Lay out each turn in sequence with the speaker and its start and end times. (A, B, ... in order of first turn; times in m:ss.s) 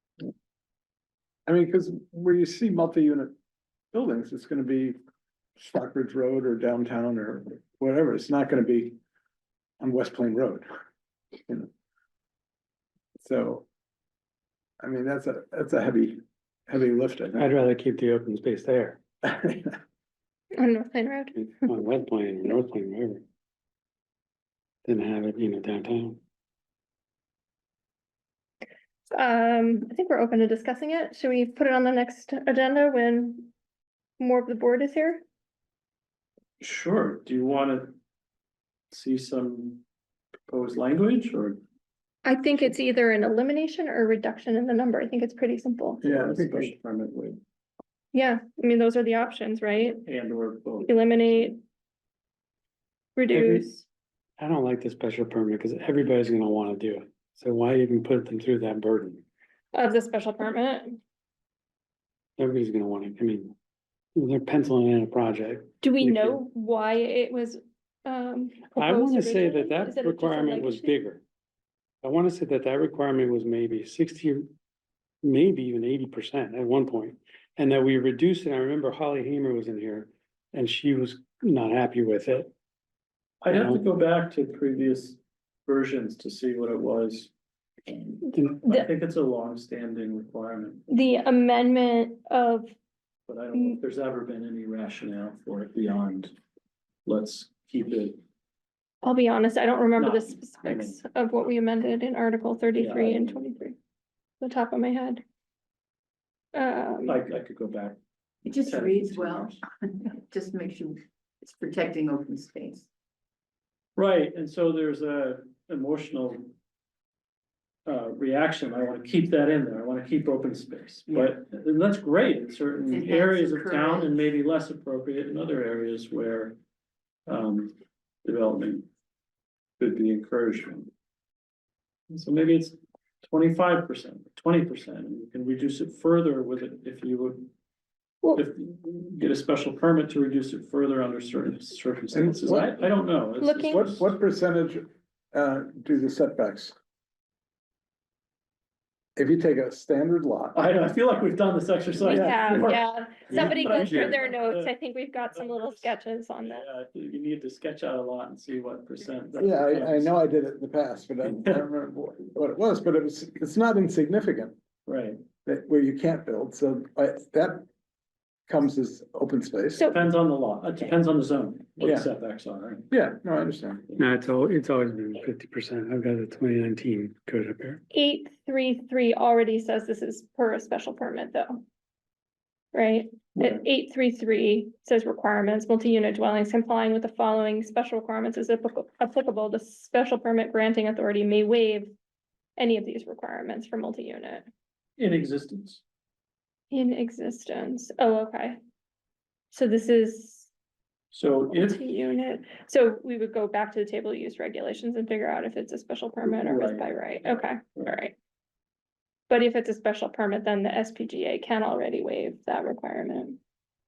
0:01.5-0:03.3 A
0:03.9-0:05.0 A
0:05.6-0:09.0 A
0:09.8-0:10.6 A
0:13.2-0:13.6 A
0:14.8-0:17.5 A
0:17.4-0:19.0 B
0:19.2-0:19.8 A
0:20.6-0:21.5 C
0:21.4-0:23.2 B
0:24.8-0:26.2 B
0:29.1-0:33.5 C
0:34.2-0:35.2 C
0:36.6-0:38.0 D
0:38.9-0:39.8 D
0:40.5-0:41.6 D
0:42.2-0:46.0 C
0:46.0-0:46.7 A
0:46.0-0:47.4 D
0:48.1-0:50.0 C
0:50.0-0:50.9 D
0:50.8-0:51.6 C
0:53.2-0:53.8 C
0:53.3-0:53.6 D
0:54.4-0:59.2 B
0:59.7-1:01.0 C
1:02.4-1:03.5 B
1:04.2-1:06.4 B
1:05.8-1:10.9 C
1:08.7-1:11.2 B
1:12.0-1:14.5 B
1:15.2-1:22.5 B
1:23.4-1:27.3 D
1:23.5-1:23.8 B
1:27.9-1:30.8 D
1:28.2-1:28.9 C
1:30.9-1:32.7 C
1:33.3-1:36.3 D
1:37.0-1:38.2 D
1:39.0-1:43.8 C
1:40.0-1:41.0 D
1:42.8-1:43.4 D
1:44.4-1:45.2 C
1:46.5-1:47.2 C
1:47.0-1:49.6 D
1:48.4-1:52.9 E
1:54.0-1:56.5 D
1:57.8-2:06.6 D
2:02.9-2:04.2 E
2:07.3-2:08.9 D
2:09.8-2:10.9 D
2:12.1-2:17.5 D
2:18.3-2:24.1 D
2:22.1-2:22.8 A
2:23.4-2:23.8 C
2:23.7-2:26.7 A
2:29.2-2:30.6 A
2:30.5-2:34.7 D
2:32.0-2:36.6 C
2:32.0-2:32.8 A
2:33.3-2:34.1 A
2:35.3-2:40.1 D
2:39.4-2:44.5 A
2:41.2-2:41.6 D
2:44.8-2:45.2 D
2:45.4-2:47.6 A
2:48.5-2:49.9 A
2:49.9-2:52.8 D
2:51.8-2:52.1 A
2:52.9-2:53.8 A
2:54.0-2:57.8 B
2:57.9-3:01.6 C
3:02.7-3:11.9 C
3:03.4-3:03.6 D
3:12.6-3:14.4 C
3:15.0-3:15.8 D
3:16.7-3:18.6 C
3:19.5-3:20.5 C
3:21.1-3:21.8 D
3:21.5-3:28.1 C
3:26.2-3:27.9 D
3:29.3-3:33.4 C